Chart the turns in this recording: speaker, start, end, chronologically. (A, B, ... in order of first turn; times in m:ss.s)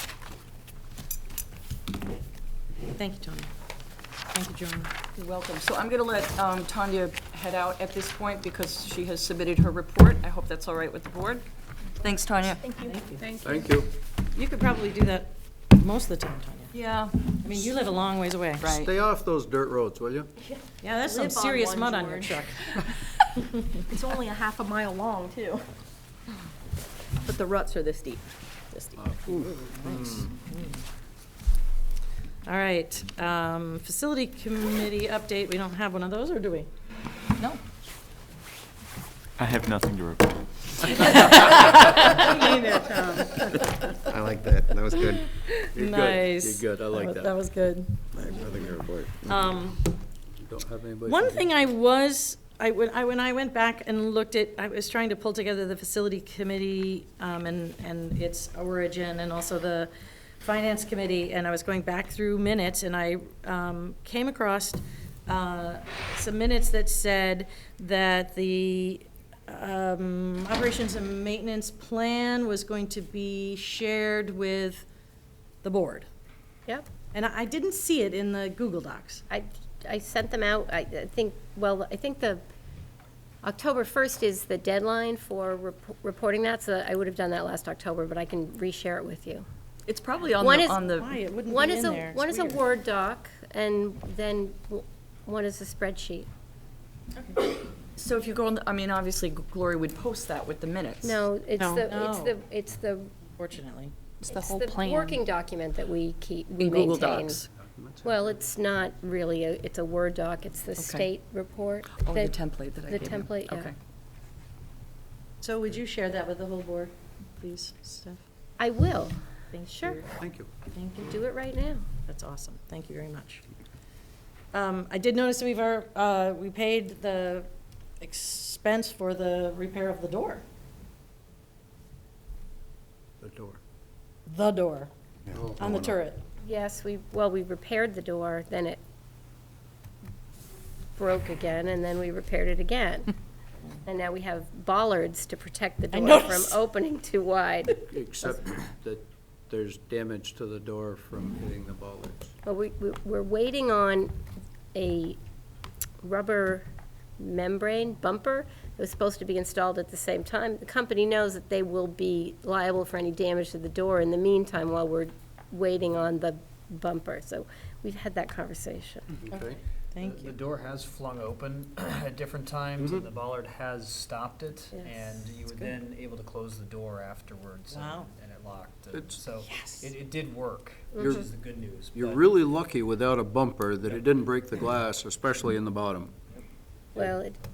0:02.9-0:03.5 A
0:04.3-0:04.9 A
0:05.1-0:11.4 B
0:12.0-0:12.8 B
0:12.8-0:13.6 C
0:12.8-0:13.2 A
0:13.3-0:13.9 D
0:14.3-0:16.7 A
0:16.7-0:17.3 B
0:17.3-0:18.6 A
0:18.6-0:18.9 B
0:18.7-0:20.3 D
0:20.8-0:23.0 A
0:21.0-0:22.3 C
0:23.9-0:25.6 C
0:27.3-0:28.2 C
0:28.7-0:30.8 A
0:29.0-0:30.3 D
0:32.4-0:36.7 A
0:39.4-0:41.9 E
0:40.9-0:43.2 A
0:41.2-0:42.4 B
0:44.0-0:45.2 F
0:45.1-0:49.8 A
0:45.7-0:47.3 D
0:48.2-0:49.4 F
0:50.4-0:51.5 D
0:51.0-0:59.9 A
1:00.4-1:14.9 A
1:15.6-1:16.1 A
1:17.1-1:19.2 A
1:19.3-1:22.4 G
1:23.4-1:29.4 G
1:29.8-1:31.1 B
1:30.4-1:30.8 G
1:30.9-1:32.6 A
1:31.4-1:36.3 G
1:38.0-1:41.2 B
1:41.0-1:43.1 G
1:41.6-1:42.4 A
1:43.4-1:43.9 A
1:44.2-1:45.2 C
1:44.3-1:47.4 G
1:46.6-1:47.4 B
1:47.6-1:48.4 D
1:48.0-1:53.7 G
1:50.8-1:51.1 B
1:51.9-1:53.7 B
1:55.4-1:58.2 A
1:58.6-1:59.2 G
1:59.5-2:00.1 A
2:00.1-2:00.5 D
2:00.7-2:01.2 A
2:01.0-2:01.8 G
2:02.0-2:03.4 A
2:04.5-2:07.5 A
2:08.0-2:10.4 A
2:13.2-2:13.6 D
2:14.2-2:14.9 A
2:15.3-2:15.9 D
2:15.6-2:16.2 A
2:16.4-2:18.8 G
2:21.0-2:23.1 G
2:23.8-2:28.4 G
2:25.9-2:26.6 A
2:27.8-2:32.3 D
2:32.4-2:34.1 G
2:34.7-2:35.2 G
2:36.0-2:36.7 G
2:37.2-2:49.1 G
2:49.2-2:49.6 D
2:49.3-2:50.4 A
2:50.0-3:02.3 H
2:52.8-2:53.0 D
2:57.7-2:58.1 A
2:58.9-2:59.2 D
2:59.4-2:59.9 A
3:01.0-3:01.3 D
3:01.9-3:06.1 D
3:07.0-3:07.4 G